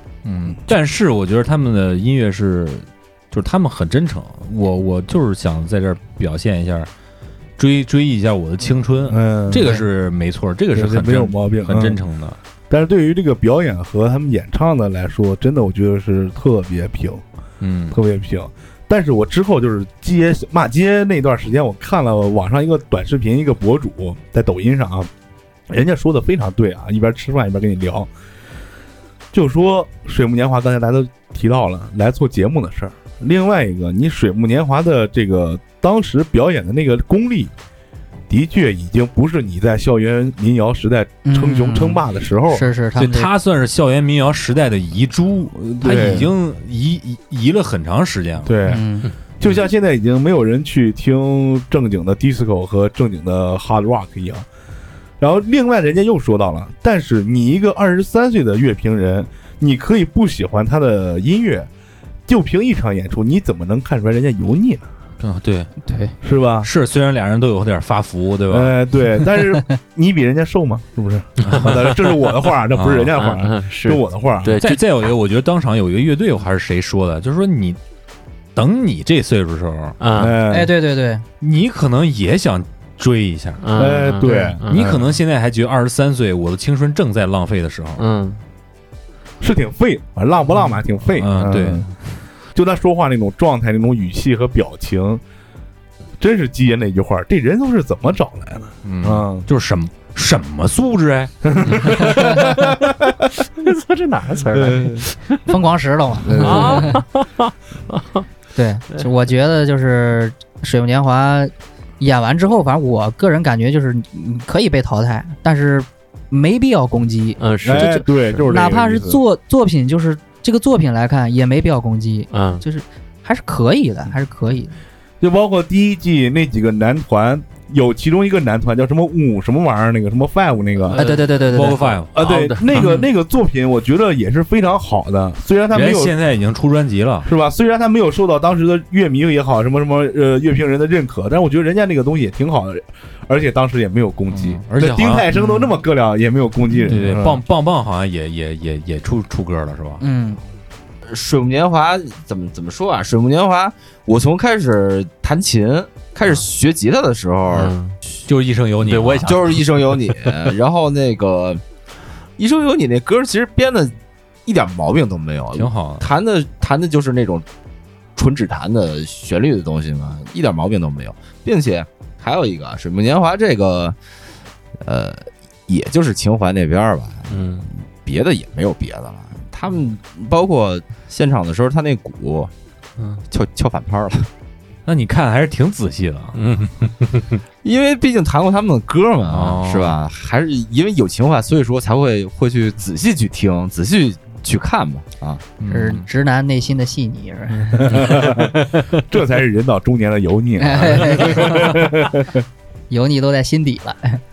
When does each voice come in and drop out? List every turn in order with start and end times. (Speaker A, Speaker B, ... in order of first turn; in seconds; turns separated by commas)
Speaker A: 0.2-6.9, Speaker A: 7.6-12.4, Speaker B: 9.1-9.8, Speaker B: 10.7-12.0, Speaker B: 12.7-17.2, Speaker A: 17.6-18.0, Speaker B: 17.9-25.1, Speaker B: 25.7-28.1, Speaker B: 29.3-37.5, Speaker B: 38.3-42.7, Speaker C: 41.2-43.3, Speaker A: 43.0-48.5, Speaker B: 45.5-46.3, Speaker B: 48.5-48.8, Speaker C: 48.7-49.1, Speaker B: 49.4-54.5, Speaker B: 55.2-61.7, Speaker B: 62.3-64.8, Speaker A: 65.2-65.7, Speaker C: 65.8-66.1, Speaker B: 66.2-66.7, Speaker A: 66.6-68.7, Speaker B: 68.5-74.6, Speaker D: 71.5-72.2, Speaker A: 72.8-73.1, Speaker D: 73.2-74.8, Speaker A: 74.6-77.8, Speaker A: 78.5-80.0, Speaker D: 80.0-80.3, Speaker B: 80.2-80.7, Speaker C: 80.5-81.2, Speaker A: 81.4-83.9, Speaker D: 83.6-85.0, Speaker B: 83.8-85.1, Speaker A: 84.7-88.0, Speaker D: 88.0-88.4, Speaker B: 89.4-91.9, Speaker A: 91.1-91.9, Speaker B: 92.5-95.2, Speaker B: 96.2-99.5, Speaker A: 98.8-101.3, Speaker B: 101.5-102.2, Speaker D: 101.7-102.5, Speaker D: 103.6-105.4, Speaker B: 104.5-105.1, Speaker C: 105.5-107.0, Speaker B: 106.2-107.0, Speaker D: 106.4-108.2, Speaker C: 108.6-124.8, Speaker D: 117.4-118.4, Speaker B: 117.6-119.2, Speaker D: 122.3-122.6, Speaker B: 125.2-131.0, Speaker D: 130.9-132.9, Speaker C: 130.9-131.8, Speaker A: 131.5-132.1, Speaker B: 132.2-136.1, Speaker A: 135.7-137.3, Speaker B: 137.2-147.4, Speaker A: 144.3-145.3, Speaker C: 145.3-145.7, Speaker A: 146.8-150.0, Speaker C: 150.0-150.4, Speaker E: 151.1-157.7, Speaker D: 157.5-158.0, Speaker A: 158.3-159.6, Speaker D: 158.8-160.3, Speaker E: 159.2-161.6, Speaker E: 162.4-167.5, Speaker A: 165.5-166.1, Speaker E: 168.2-174.0, Speaker E: 174.8-182.5, Speaker D: 177.3-177.7, Speaker E: 183.3-184.3, Speaker A: 184.9-186.4, Speaker D: 186.3-187.4, Speaker E: 187.6-195.5, Speaker A: 189.3-190.0, Speaker A: 195.6-196.1, Speaker C: 195.7-197.9, Speaker B: 197.7-202.4, Speaker C: 200.6-201.8, Speaker C: 202.9-204.2